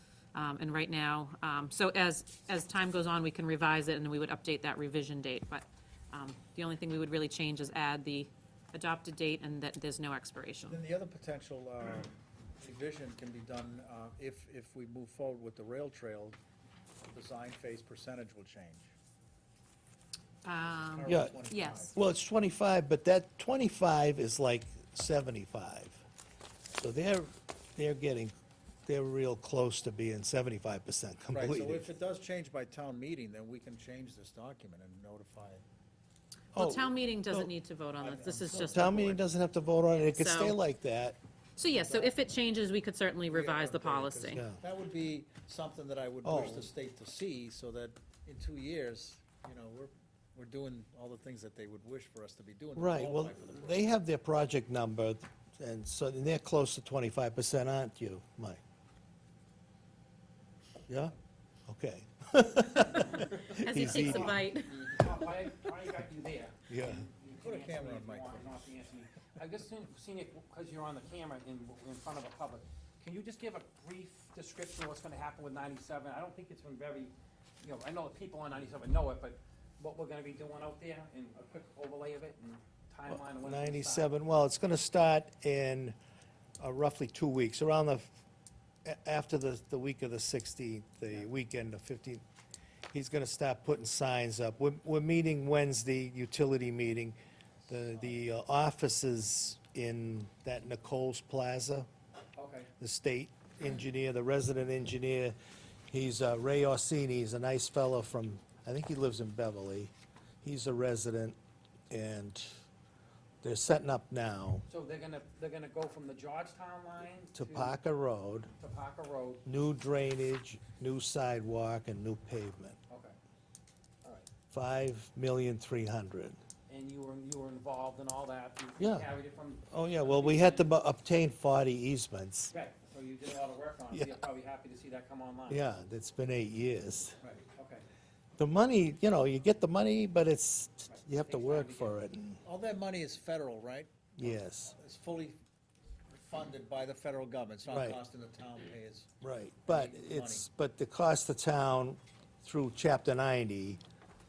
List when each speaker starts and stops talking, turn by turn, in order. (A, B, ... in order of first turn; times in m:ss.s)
0:00.3-0:10.8 A
0:10.6-0:16.4 B
0:17.0-0:18.9 B
0:20.4-0:21.9 A
0:20.9-0:21.9 B
0:21.0-0:26.0 C
0:26.8-0:28.3 C
0:28.8-0:31.9 C
0:31.3-0:35.6 B
0:36.5-0:37.5 C
0:36.5-0:39.2 A
0:38.0-0:38.9 B
0:38.6-0:41.2 C
0:39.9-0:40.6 A
0:41.6-0:44.4 A
0:41.7-0:42.4 B
0:43.3-0:53.8 B
0:44.3-0:44.6 C
0:46.2-0:46.7 C
0:52.8-0:58.6 C
1:00.9-1:01.1 C
1:01.7-1:04.4 C
1:03.0-1:03.3 D
1:03.5-1:04.8 A
1:03.8-1:24.1 D
1:06.7-1:07.1 C
1:07.4-1:08.8 B
1:23.1-1:26.0 C
1:26.6-1:28.2 C
1:28.8-1:32.2 C
1:32.9-1:37.2 C
1:37.7-1:41.9 C
1:42.4-1:42.7 D
1:42.8-1:45.4 C
1:45.9-1:51.4 C
1:51.9-1:52.6 C
1:53.4-1:54.6 C
1:54.7-1:57.8 D
1:57.3-1:58.5 C
1:58.5-1:59.4 D
1:59.4-2:02.8 C
2:02.9-2:03.2 D
2:04.5-2:06.4 C
2:06.7-2:10.8 D
2:08.8-2:09.1 C
2:09.7-2:12.5 C
2:12.5-2:15.6 D
2:13.9-2:14.2 C
2:15.5-2:17.2 C
2:17.5-2:17.8 D
2:18.4-2:22.4 C
2:20.9-2:22.0 D
2:22.4-2:25.4 B
2:24.2-2:24.7 C
2:26.1-2:29.1 B
2:27.7-2:28.0 C
2:29.2-2:33.8 C
2:29.6-2:30.5 B